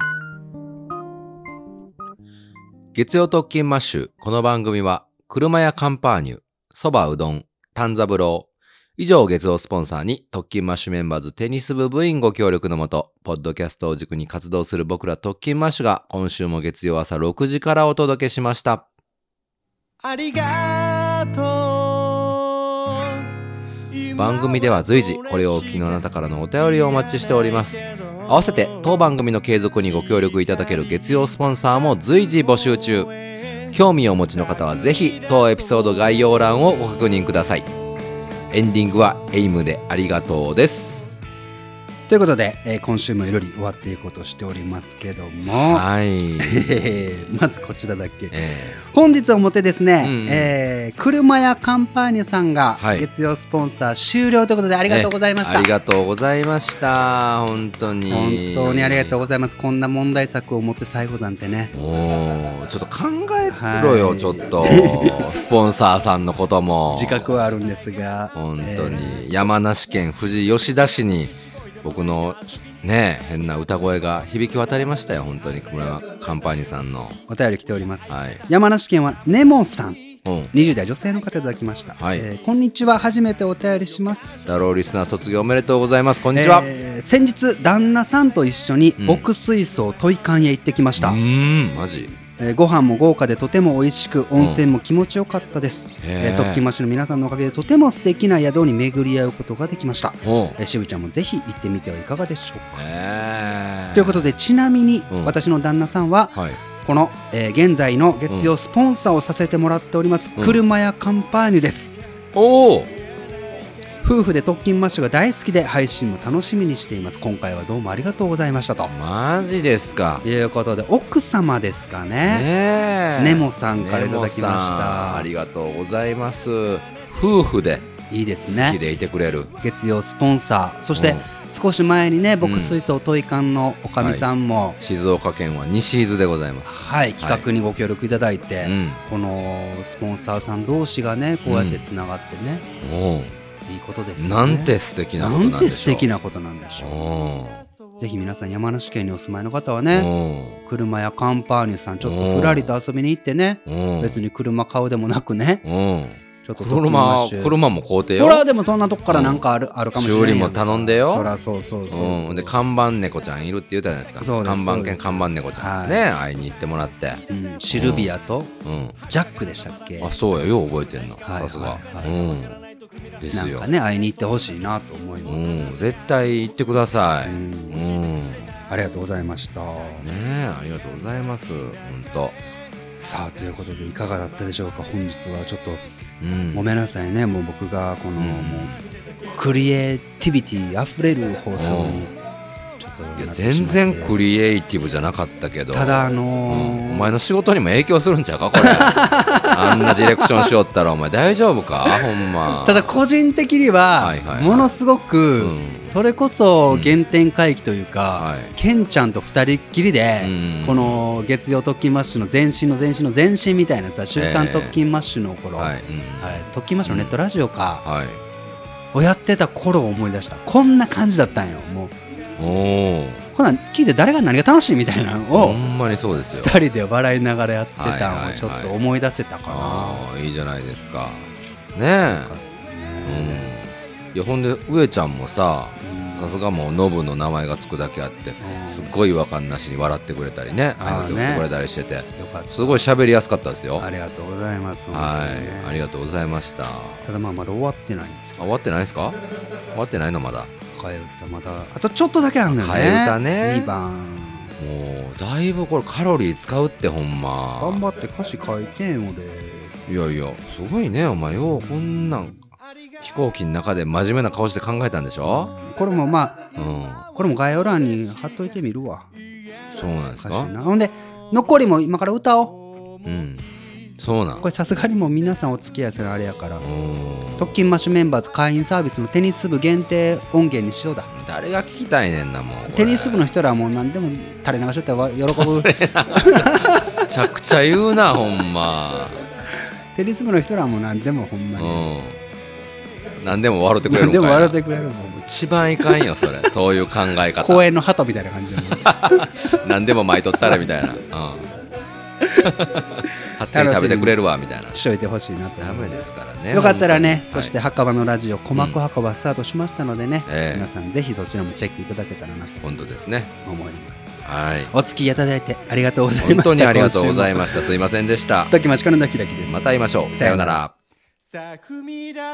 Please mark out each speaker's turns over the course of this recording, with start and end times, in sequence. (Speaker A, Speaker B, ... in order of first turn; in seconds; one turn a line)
Speaker A: 2.9-18.9
Speaker B: 20.1-22.4
Speaker A: 24.1-33.1
Speaker A: 33.7-37.7
Speaker A: 38.5-41.1
Speaker C: 42.1-45.8
Speaker A: 45.5-46.7
Speaker C: 46.4-55.7
Speaker A: 48.3-48.8
Speaker A: 50.0-50.5
Speaker A: 52.8-53.0
Speaker A: 54.9-59.1
Speaker C: 58.1-61.7
Speaker A: 61.7-67.3
Speaker C: 63.5-65.3
Speaker C: 66.9-69.2
Speaker A: 68.3-77.2
Speaker C: 77.3-84.3
Speaker A: 78.1-78.4
Speaker A: 80.2-80.5
Speaker A: 82.0-82.2
Speaker A: 84.5-86.7
Speaker C: 86.3-91.2
Speaker A: 89.0-89.2
Speaker A: 91.0-92.1
Speaker C: 92.4-102.8
Speaker A: 94.4-94.6
Speaker A: 96.0-96.6
Speaker A: 100.2-100.6
Speaker A: 102.8-104.3
Speaker C: 103.9-111.9
Speaker A: 105.1-105.3
Speaker A: 108.3-108.5
Speaker A: 110.4-110.6
Speaker A: 112.3-112.9
Speaker C: 114.0-118.9
Speaker A: 118.9-120.2
Speaker C: 120.2-122.5
Speaker A: 122.2-127.9
Speaker C: 123.2-125.3
Speaker C: 128.1-128.8
Speaker A: 128.4-129.5
Speaker C: 129.6-134.8
Speaker A: 130.9-131.3
Speaker A: 132.4-132.8
Speaker A: 134.0-134.2
Speaker A: 134.8-137.4
Speaker C: 136.7-142.7
Speaker A: 138.6-139.0
Speaker A: 141.4-141.8
Speaker A: 142.8-143.4
Speaker C: 143.7-147.0
Speaker A: 144.2-146.1
Speaker A: 146.8-147.6
Speaker C: 148.0-150.1
Speaker A: 149.9-150.6
Speaker C: 150.6-155.6
Speaker A: 152.0-152.7
Speaker A: 153.7-154.2
Speaker A: 155.6-158.4
Speaker C: 156.4-157.6
Speaker C: 158.2-162.5
Speaker A: 159.1-159.4
Speaker A: 159.9-161.3
Speaker A: 161.9-168.1
Speaker C: 164.2-166.0
Speaker C: 167.3-168.5
Speaker A: 168.6-169.0
Speaker C: 169.1-170.1
Speaker A: 170.0-172.6
Speaker C: 171.2-172.1
Speaker A: 173.2-173.7
Speaker C: 173.3-175.4
Speaker A: 175.2-178.5
Speaker C: 177.2-177.8
Speaker C: 178.7-180.1
Speaker A: 180.0-182.4
Speaker C: 183.0-185.8
Speaker A: 186.2-186.7
Speaker C: 186.5-188.8
Speaker A: 188.2-188.8
Speaker C: 189.3-192.1
Speaker A: 191.6-192.1
Speaker C: 192.8-194.1
Speaker A: 193.2-202.9
Speaker C: 195.7-197.2
Speaker C: 198.6-200.5
Speaker C: 202.6-217.8
Speaker A: 204.0-204.7
Speaker A: 205.4-205.9
Speaker A: 206.7-206.9
Speaker A: 208.2-208.5
Speaker A: 210.2-211.0
Speaker A: 214.1-214.8
Speaker A: 215.6-217.2
Speaker A: 217.8-218.2
Speaker C: 218.9-221.9
Speaker A: 222.4-223.2
Speaker C: 223.3-225.6
Speaker A: 225.3-226.6
Speaker C: 226.4-230.0
Speaker A: 227.8-228.7
Speaker A: 229.5-232.3
Speaker C: 232.1-233.5
Speaker A: 233.0-243.8
Speaker C: 235.8-236.3
Speaker C: 238.4-238.9
Speaker C: 240.8-241.4
Speaker C: 242.1-242.8
Speaker C: 243.8-245.8
Speaker A: 244.9-247.1
Speaker C: 247.0-248.5
Speaker A: 248.4-250.5
Speaker C: 250.7-254.6
Speaker A: 252.5-253.7
Speaker A: 254.6-257.8
Speaker C: 257.6-259.7
Speaker A: 259.9-262.4
Speaker A: 263.0-265.5
Speaker C: 265.5-266.4
Speaker A: 266.5-267.1
Speaker C: 267.1-269.1
Speaker A: 269.7-270.5
Speaker C: 270.2-272.6
Speaker A: 273.0-274.5
Speaker C: 274.4-276.6
Speaker A: 276.6-277.6
Speaker C: 277.4-281.1
Speaker A: 281.1-283.2
Speaker C: 282.7-287.0
Speaker A: 285.3-289.3
Speaker C: 289.9-291.9
Speaker A: 291.6-292.2
Speaker A: 293.2-294.6
Speaker C: 293.9-295.2
Speaker A: 295.2-297.6
Speaker C: 297.4-299.4
Speaker A: 298.6-301.5
Speaker C: 302.2-302.5
Speaker A: 302.4-304.8
Speaker C: 303.2-304.2
Speaker C: 304.7-306.0
Speaker A: 305.6-307.5
Speaker C: 306.5-312.6
Speaker A: 310.2-310.7
Speaker A: 312.6-313.3
Speaker C: 313.4-314.1
Speaker A: 314.2-314.7
Speaker C: 314.7-317.7
Speaker A: 316.2-318.5
Speaker C: 318.5-319.6
Speaker A: 319.4-320.7
Speaker C: 320.1-320.6